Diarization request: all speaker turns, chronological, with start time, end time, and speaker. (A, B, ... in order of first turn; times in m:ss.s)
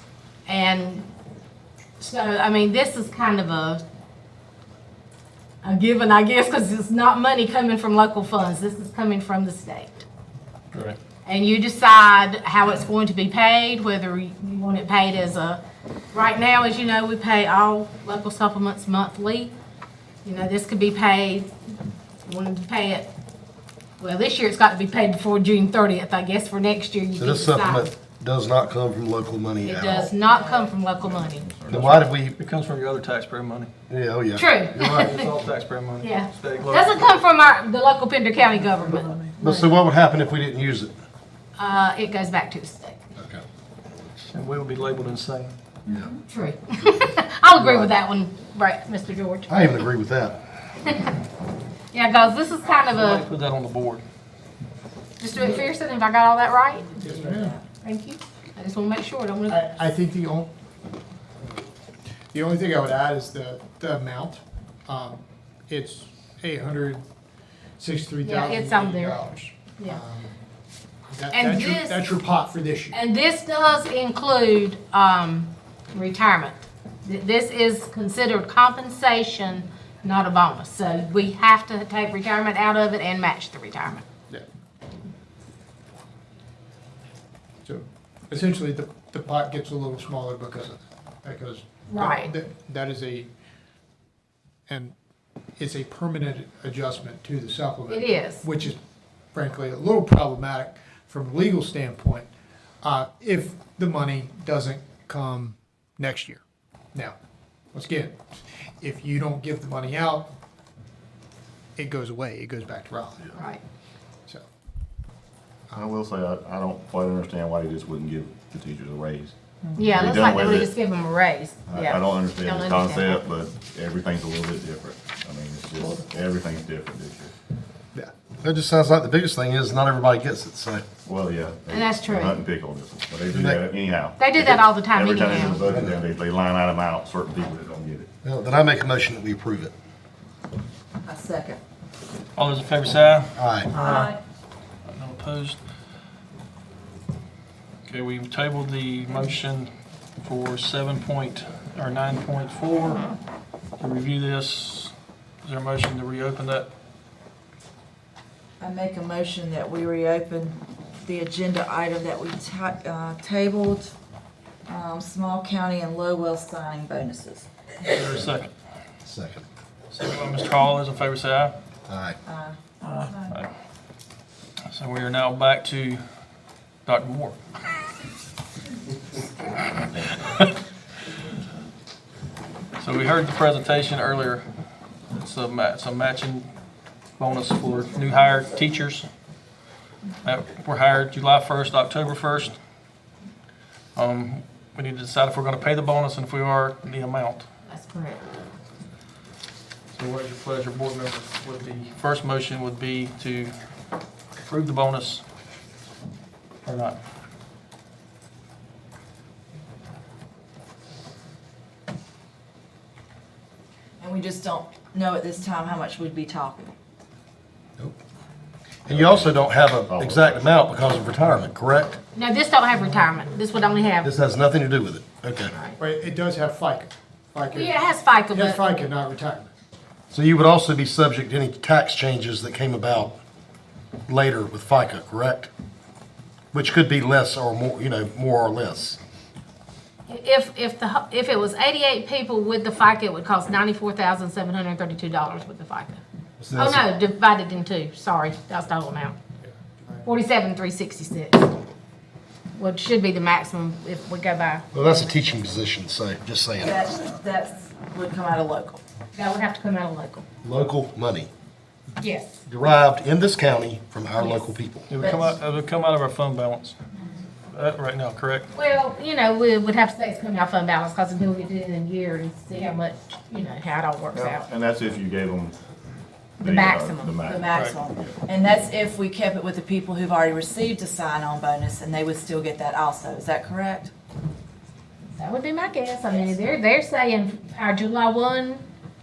0:00.4-0:01.1 A
0:02.0-0:03.8 A
0:05.6-0:10.0 A
0:10.7-0:11.0 B
0:11.2-0:15.6 A
0:16.1-0:19.5 A
0:20.2-0:21.5 A
0:22.2-0:23.1 A
0:24.0-0:27.9 A
0:27.1-0:30.1 C
0:29.6-0:31.5 A
0:30.2-0:30.7 D
0:31.0-0:32.1 E
0:31.7-0:32.4 C
0:32.4-0:33.7 B
0:33.9-0:35.1 C
0:34.4-0:35.3 A
0:34.8-0:37.1 B
0:36.0-0:39.7 A
0:38.7-0:39.3 B
0:39.4-0:40.9 C
0:41.6-0:43.0 A
0:43.2-0:43.4 C
0:44.3-0:45.5 B
0:46.3-0:49.7 A
0:49.5-0:50.4 C
0:51.9-0:53.2 A
0:53.0-0:54.0 B
0:55.2-0:56.9 A
0:57.0-0:57.6 D
0:57.0-0:57.6 F
0:57.8-0:59.6 A
0:59.5-1:00.5 F
1:02.3-1:07.0 F
1:07.8-1:10.3 F
1:08.2-1:09.2 A
1:11.1-1:13.0 F
1:11.3-1:12.0 A
1:12.9-1:24.0 A
1:27.6-1:33.3 F
1:31.9-1:32.3 A
1:34.7-1:34.9 F
1:35.6-1:38.8 F
1:37.9-1:38.4 A
1:39.3-1:42.3 F
1:42.8-1:46.4 F
1:47.7-1:48.2 F
1:48.8-1:50.3 F
1:51.8-1:53.3 F
1:53.3-1:53.6 A
1:55.7-1:59.3 E
1:59.8-2:03.2 A
1:59.9-2:00.7 E
2:01.7-2:07.3 E
2:08.4-2:10.8 C
2:11.0-2:18.1 E
2:11.7-2:12.4 A
2:13.3-2:13.6 C
2:14.2-2:15.6 A
2:15.7-2:16.0 C
2:18.2-2:19.7 C
2:21.0-2:21.6 D
2:22.4-2:24.1 B
2:23.4-2:23.7 C
2:23.7-2:24.2 D
2:24.8-2:25.6 B
2:27.8-2:29.7 B
2:30.2-2:33.1 B
2:33.8-2:34.9 B
2:35.4-2:36.7 B
2:38.6-2:43.9 D
2:44.7-2:47.5 D
2:47.8-2:48.5 B
2:49.0-2:49.4 C
2:49.9-2:51.5 B
2:51.9-2:52.2 C
2:52.2-2:53.3 D
2:52.9-2:53.5 B
2:54.7-2:56.0 B
2:56.8-2:57.8 B
2:59.7-3:00.5 B
3:02.8-3:04.4 B
3:05.1-3:06.5 B
3:07.2-3:09.1 B
3:10.2-3:12.5 B
3:13.9-3:17.4 B
3:17.7-3:18.4 A
3:19.9-3:23.5 B
3:24.4-3:25.2 B
3:26.6-3:27.0 B
3:34.0-3:36.7 D
3:38.8-3:42.0 C
3:38.9-3:40.4 E
3:42.1-3:44.1 A
3:44.0-3:45.5 C
3:45.5-3:45.8 A
3:45.8-3:49.5 F
3:47.5-3:48.6 A
3:50.1-3:53.2 C
3:54.1-3:55.5 C
3:56.5-3:59.0 C
4:00.1-4:06.0 A
4:06.4-4:06.8 C
4:06.5-4:09.2 A
4:09.4-4:10.0 F
4:10.0-4:11.5 A
4:12.5-4:15.0 A
4:14.7-4:16.8 C
4:16.6-4:18.8 D
4:19.1-4:20.2 A
4:20.4-4:21.3 C
4:22.0-4:22.4 A
4:22.4-4:24.9 C
4:24.2-4:24.4 A
4:24.9-4:26.8 B
4:25.0-4:25.3 A
4:27.5-4:28.5 B
4:28.5-4:34.4 A
4:34.1-4:35.6 E
4:36.4-4:37.2 A
4:36.4-4:38.2 E
4:37.2-4:43.9 D
4:45.2-4:48.7 A
4:46.1-4:46.3 D